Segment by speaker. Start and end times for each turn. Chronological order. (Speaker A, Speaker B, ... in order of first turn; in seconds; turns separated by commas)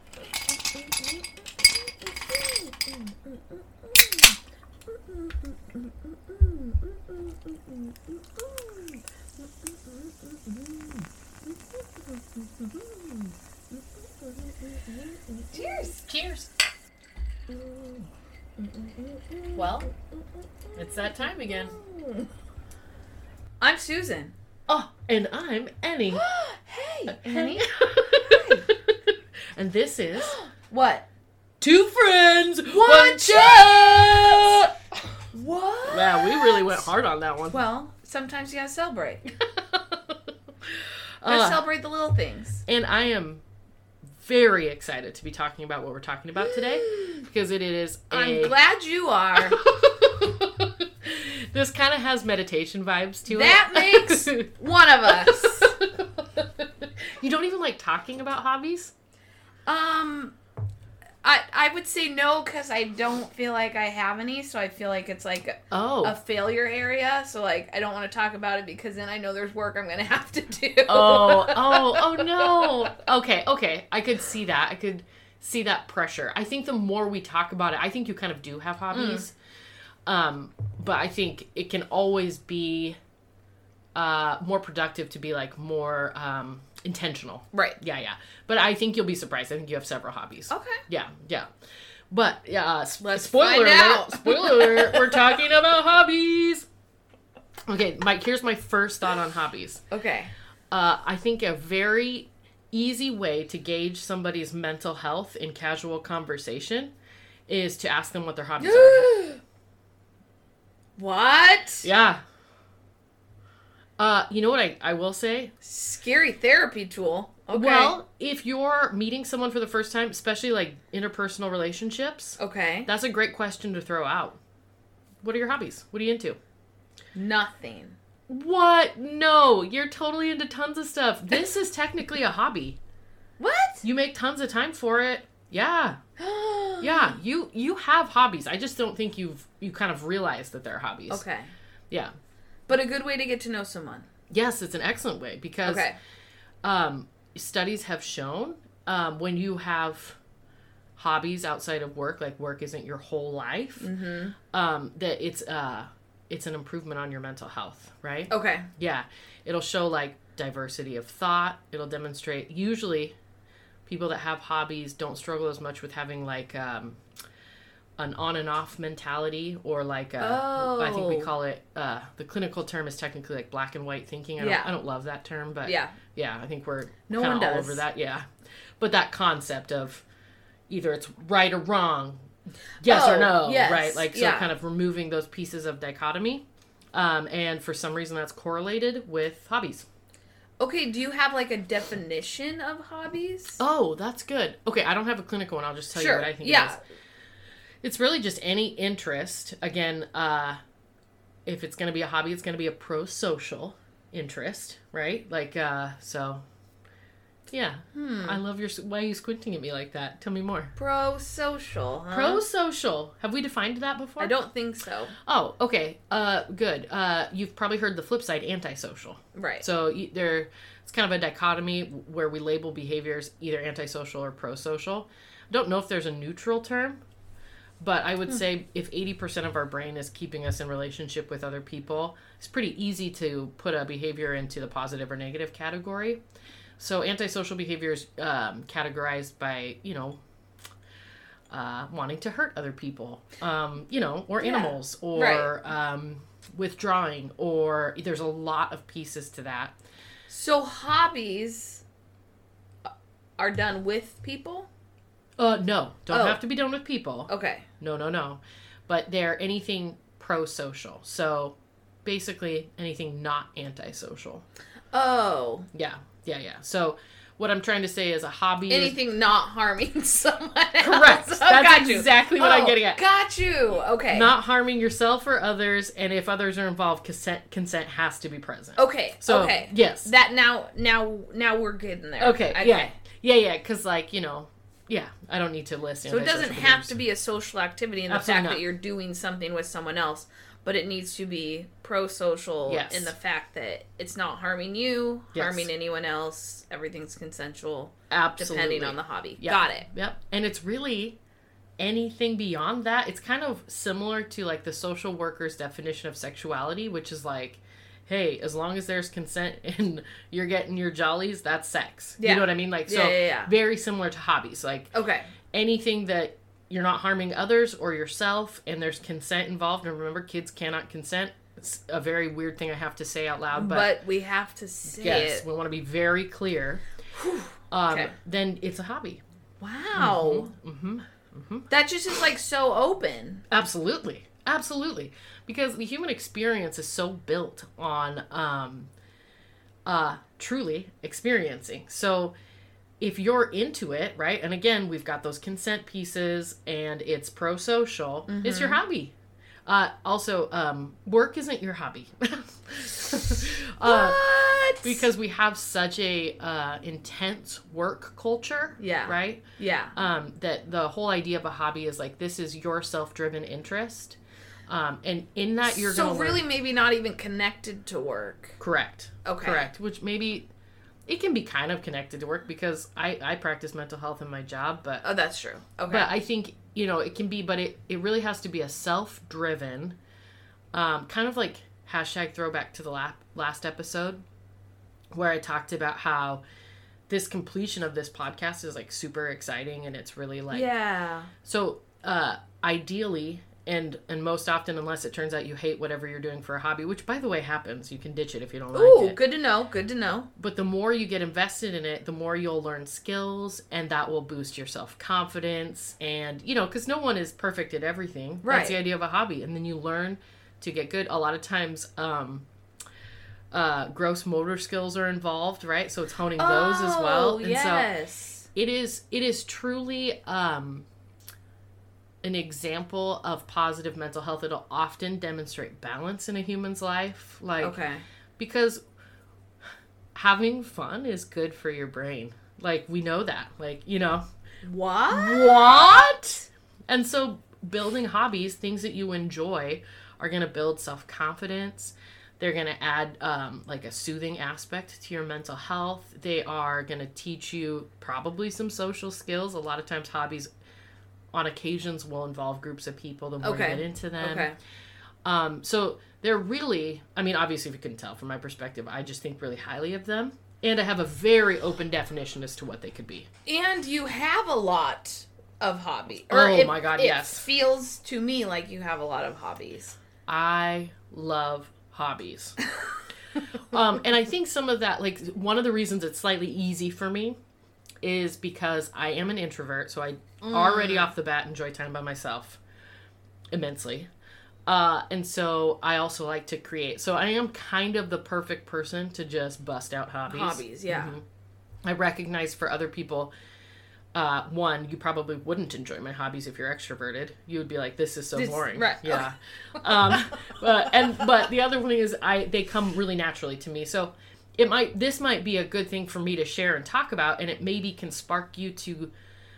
Speaker A: 0.7-4.4, Speaker A: 4.9-16.0, Speaker B: 15.8-16.5, Speaker A: 17.5-18.1, Speaker A: 18.6-20.0, Speaker B: 19.5-19.9, Speaker B: 20.8-21.7, Speaker A: 21.0-22.3, Speaker A: 23.6-24.3, Speaker B: 24.7-26.2, Speaker A: 26.1-28.6, Speaker B: 27.1-30.4, Speaker A: 30.2-31.1, Speaker B: 31.6-34.8, Speaker A: 32.7-34.6, Speaker A: 35.3-36.8, Speaker B: 35.9-37.6, Speaker A: 37.5-39.3, Speaker B: 39.6-41.6, Speaker A: 41.2-42.6, Speaker B: 42.6-43.4, Speaker B: 44.1-48.5, Speaker A: 46.8-47.2, Speaker A: 48.1-49.6, Speaker B: 49.4-54.5, Speaker A: 53.3-55.8, Speaker B: 55.0-58.9, Speaker A: 59.6-60.3, Speaker A: 61.2-72.9, Speaker B: 65.7-66.1, Speaker B: 70.9-79.3, Speaker A: 78.9-79.2, Speaker B: 80.0-83.0, Speaker B: 83.9-91.5, Speaker A: 87.5-87.8, Speaker A: 90.5-90.8, Speaker B: 92.1-96.7, Speaker A: 93.0-95.2, Speaker B: 97.7-99.8, Speaker A: 99.9-100.3, Speaker B: 100.7-106.9, Speaker B: 107.5-109.1, Speaker A: 108.6-109.4, Speaker A: 111.0-111.9, Speaker B: 111.8-112.2, Speaker B: 114.0-115.5, Speaker A: 115.6-118.0, Speaker B: 117.5-124.4, Speaker A: 122.4-122.9, Speaker B: 125.2-126.4, Speaker A: 127.1-128.0, Speaker B: 128.3-132.8, Speaker A: 133.4-133.8, Speaker B: 133.8-136.0, Speaker A: 136.2-137.2, Speaker B: 136.8-141.2, Speaker A: 141.1-141.5, Speaker A: 142.7-144.1, Speaker B: 144.3-145.9, Speaker A: 145.6-146.0, Speaker B: 146.6-150.2, Speaker B: 151.0-153.9, Speaker A: 153.8-154.3, Speaker B: 154.5-163.1, Speaker A: 158.3-158.7, Speaker B: 163.8-167.0, Speaker B: 168.0-178.2, Speaker A: 170.2-171.3, Speaker A: 174.4-174.7, Speaker A: 175.6-176.0, Speaker A: 177.1-177.8, Speaker B: 178.8-180.0, Speaker B: 180.7-182.2, Speaker B: 182.8-189.9, Speaker A: 182.8-184.5, Speaker A: 190.6-193.6, Speaker B: 193.6-196.8, Speaker A: 195.9-196.8, Speaker B: 197.8-200.6, Speaker B: 201.4-206.4, Speaker B: 207.5-210.7, Speaker A: 207.9-208.4, Speaker A: 210.8-212.4, Speaker B: 212.1-214.3, Speaker A: 214.2-215.1, Speaker B: 215.2-227.0, Speaker A: 219.3-219.6, Speaker B: 227.8-236.2, Speaker B: 236.8-240.2, Speaker B: 241.5-249.7, Speaker A: 244.4-245.5, Speaker A: 250.3-251.8, Speaker A: 253.4-254.7, Speaker B: 255.4-264.4, Speaker A: 256.1-256.4, Speaker A: 257.3-257.7, Speaker A: 264.9-265.7, Speaker B: 265.7-269.0, Speaker A: 268.7-274.3, Speaker B: 270.8-273.0, Speaker B: 274.1-280.1, Speaker A: 278.8-282.9, Speaker B: 282.2-287.0, Speaker A: 286.1-299.9, Speaker B: 288.1-288.6, Speaker B: 292.7-293.1, Speaker B: 295.3-295.7, Speaker B: 298.1-301.2, Speaker B: 301.8-314.9, Speaker A: 312.2-313.5, Speaker A: 314.9-315.3, Speaker B: 315.5-323.9, Speaker A: 323.5-325.4, Speaker B: 325.0-326.8, Speaker A: 327.1-328.1, Speaker B: 327.7-329.2, Speaker A: 329.6-330.5, Speaker B: 329.9-331.7, Speaker A: 331.7-333.4, Speaker B: 333.5-338.9, Speaker B: 339.9-342.3, Speaker B: 343.0-349.1, Speaker A: 348.3-348.8, Speaker B: 349.6-354.2, Speaker A: 353.8-355.1, Speaker B: 354.8-366.4, Speaker A: 358.8-359.9, Speaker A: 365.7-368.6, Speaker B: 368.6-370.5, Speaker A: 369.2-369.7, Speaker B: 371.1-375.0, Speaker A: 375.0-376.1, Speaker B: 375.9-379.9, Speaker B: 380.7-384.2, Speaker B: 385.1-386.4, Speaker B: 387.1-390.7, Speaker A: 390.5-391.3, Speaker B: 391.4-399.2, Speaker A: 398.7-400.3, Speaker B: 400.4-412.4, Speaker A: 408.4-408.8, Speaker B: 413.5-417.9, Speaker A: 416.4-418.5, Speaker B: 418.5-420.9, Speaker B: 422.2-427.8, Speaker A: 427.6-428.0, Speaker B: 428.4-428.8, Speaker B: 430.1-434.2, Speaker A: 434.6-436.4, Speaker B: 435.1-450.5, Speaker B: 451.3-454.5, Speaker A: 453.4-454.6, Speaker B: 455.2-463.3, Speaker A: 463.4-470.0, Speaker B: 466.3-467.4, Speaker B: 470.3-472.6, Speaker B: 473.6-477.4, Speaker B: 478.0-482.6, Speaker A: 480.4-481.1, Speaker B: 483.5-484.1, Speaker B: 484.6-491.2, Speaker A: 490.3-491.1, Speaker B: 491.8-493.3, Speaker B: 494.1-509.1, Speaker A: 498.4-500.6